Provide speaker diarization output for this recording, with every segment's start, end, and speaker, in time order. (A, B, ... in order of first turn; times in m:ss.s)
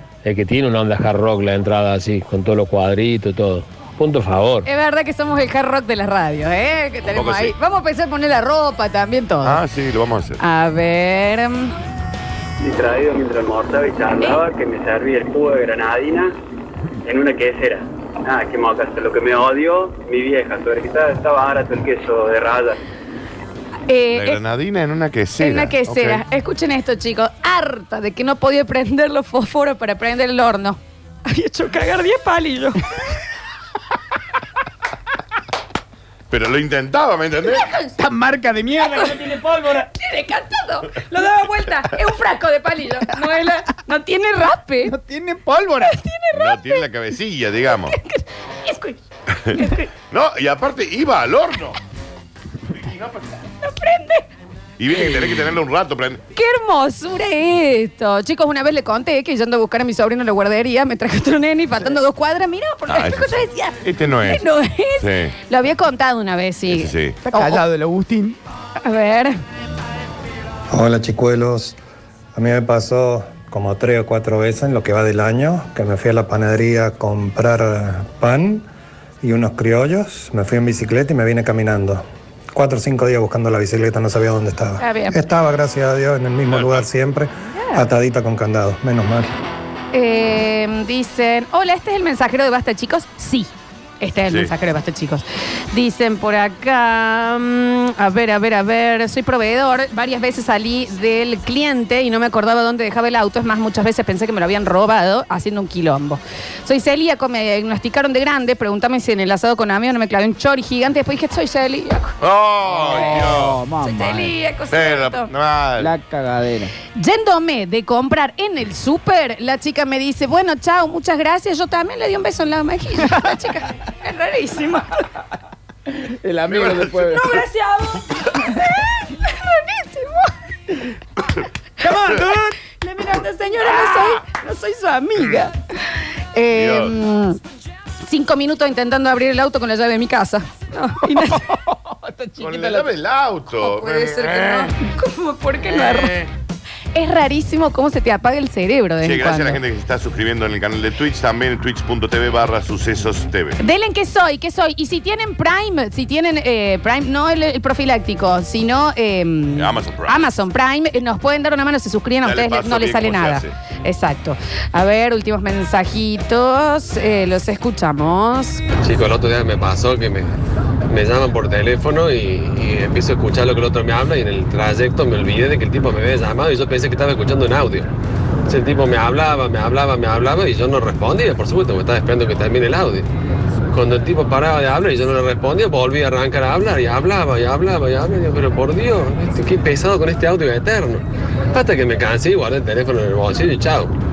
0:00.2-0:04.7 A
0:04.6-0:09.6 B
0:07.1-0:07.5 C
0:09.4-0:10.4 C
0:10.4-0:11.7 B
0:12.6-0:16.3 D
0:17.1-0:22.8 D
0:23.9-0:24.4 B
0:24.1-0:26.2 C
0:25.4-0:32.8 B
0:36.3-0:37.7 C
0:37.5-0:37.9 B
0:38.0-0:39.8 E
0:39.8-0:44.9 B
0:44.8-0:46.0 E
0:45.8-0:46.8 B
0:46.3-0:48.0 C
0:47.7-0:49.0 B
0:49.4-0:51.8 C
0:49.5-0:49.9 B
0:52.7-0:53.4 C
0:53.6-0:54.3 B
0:54.8-0:56.2 C
0:56.3-1:07.6 B
1:02.9-1:04.4 C
1:05.0-1:05.3 C
1:06.7-1:07.2 C
1:07.2-1:08.4 E
1:08.8-1:09.3 B
1:10.7-1:11.8 F
1:12.3-1:18.7 F
1:19.2-1:22.0 F
1:22.5-1:29.3 F
1:24.8-1:25.2 B
1:26.5-1:26.9 C
1:27.5-1:27.8 B
1:29.9-1:33.5 B
1:34.0-1:52.1 B
1:52.2-1:53.6 C
1:52.6-1:54.3 E
1:53.8-1:55.3 B
1:54.7-1:55.9 C
1:55.8-1:56.7 E
1:56.9-2:05.0 B
2:05.9-2:07.3 E
2:06.4-2:07.2 C
2:07.1-2:10.3 B
2:11.8-2:12.5 E
2:11.8-2:15.5 B
2:16.3-2:17.4 B
2:16.5-2:16.9 C
2:18.0-2:21.5 B
2:21.0-2:22.8 E
2:22.4-2:24.7 C
2:23.6-2:26.2 B
2:25.7-2:26.3 C
2:26.9-2:29.6 B
2:29.0-2:33.6 C
2:33.6-2:48.6 B
2:39.5-2:40.3 C
2:42.2-2:43.5 C
2:48.8-2:50.4 G
2:50.9-2:57.9 G
2:58.5-3:03.1 G
3:03.7-3:13.9 G